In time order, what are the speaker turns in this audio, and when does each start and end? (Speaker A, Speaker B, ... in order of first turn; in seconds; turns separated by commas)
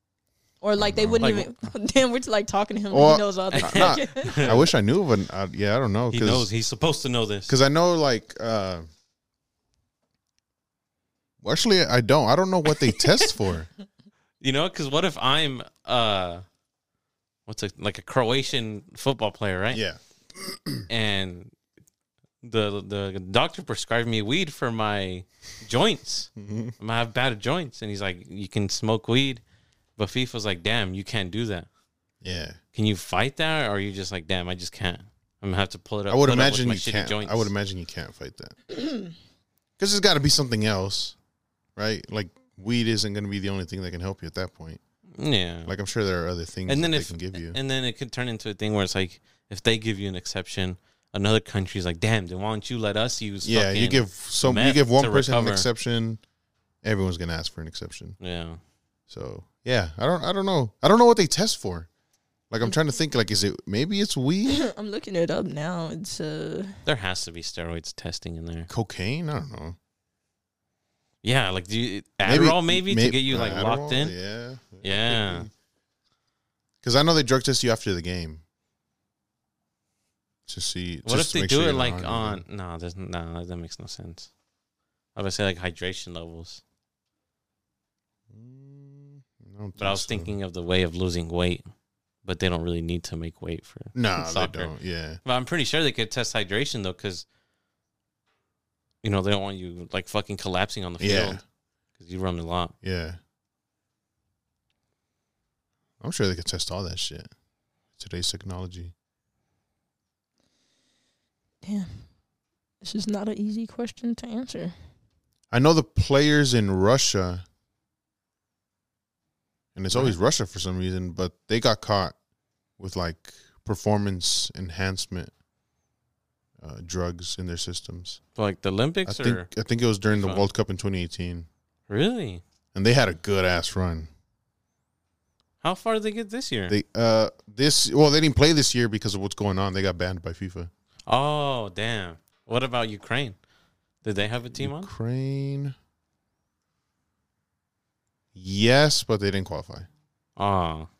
Speaker A: 0.6-4.5, Speaker B: 0.8-1.4, Speaker C: 1.2-1.5, Speaker B: 2.9-6.5, Speaker C: 3.5-4.7, Speaker C: 6.1-7.5, Speaker B: 7.5-8.9, Speaker B: 11.4-13.7, Speaker C: 14.4-16.4, Speaker C: 17.5-19.8, Speaker B: 19.7-20.9, Speaker C: 20.9-21.5, Speaker C: 22.4-29.4, Speaker B: 26.4-26.7, Speaker C: 30.0-31.7, Speaker B: 32.2-32.6, Speaker C: 32.7-37.5, Speaker B: 36.1-38.6, Speaker B: 39.8-41.1, Speaker B: 41.8-44.8, Speaker C: 45.2-45.7, Speaker B: 45.6-47.6, Speaker C: 46.7-55.7, Speaker B: 53.4-56.2, Speaker B: 56.8-58.2, Speaker C: 58.2-58.6, Speaker B: 59.1-61.9, Speaker B: 62.5-64.7, Speaker A: 64.5-66.7, Speaker C: 66.8-68.7, Speaker B: 68.7-69.8, Speaker C: 71.2-74.1, Speaker B: 72.2-75.5, Speaker C: 74.8-75.5, Speaker B: 76.8-78.4, Speaker B: 80.5-82.4, Speaker C: 81.0-84.3, Speaker C: 85.1-86.6, Speaker B: 88.3-90.3, Speaker C: 89.8-91.7, Speaker C: 92.2-94.7, Speaker B: 93.9-95.2, Speaker C: 95.2-97.2, Speaker C: 99.0-101.4, Speaker B: 101.0-101.4, Speaker C: 102.0-102.7, Speaker B: 102.8-103.2, Speaker B: 106.0-107.3, Speaker B: 107.9-108.9, Speaker A: 111.6-112.0, Speaker A: 112.8-114.7, Speaker B: 115.5-117.4, Speaker B: 119.7-122.1, Speaker B: 122.8-125.3, Speaker B: 126.6-128.2, Speaker C: 128.3-129.5, Speaker B: 129.0-131.5, Speaker C: 130.1-130.5, Speaker C: 131.9-132.4, Speaker B: 132.7-134.1, Speaker C: 135.6-136.8, Speaker B: 136.7-140.7, Speaker C: 141.1-143.3, Speaker C: 144.0-144.9, Speaker B: 144.5-145.7, Speaker B: 148.3-149.9, Speaker C: 150.4-150.9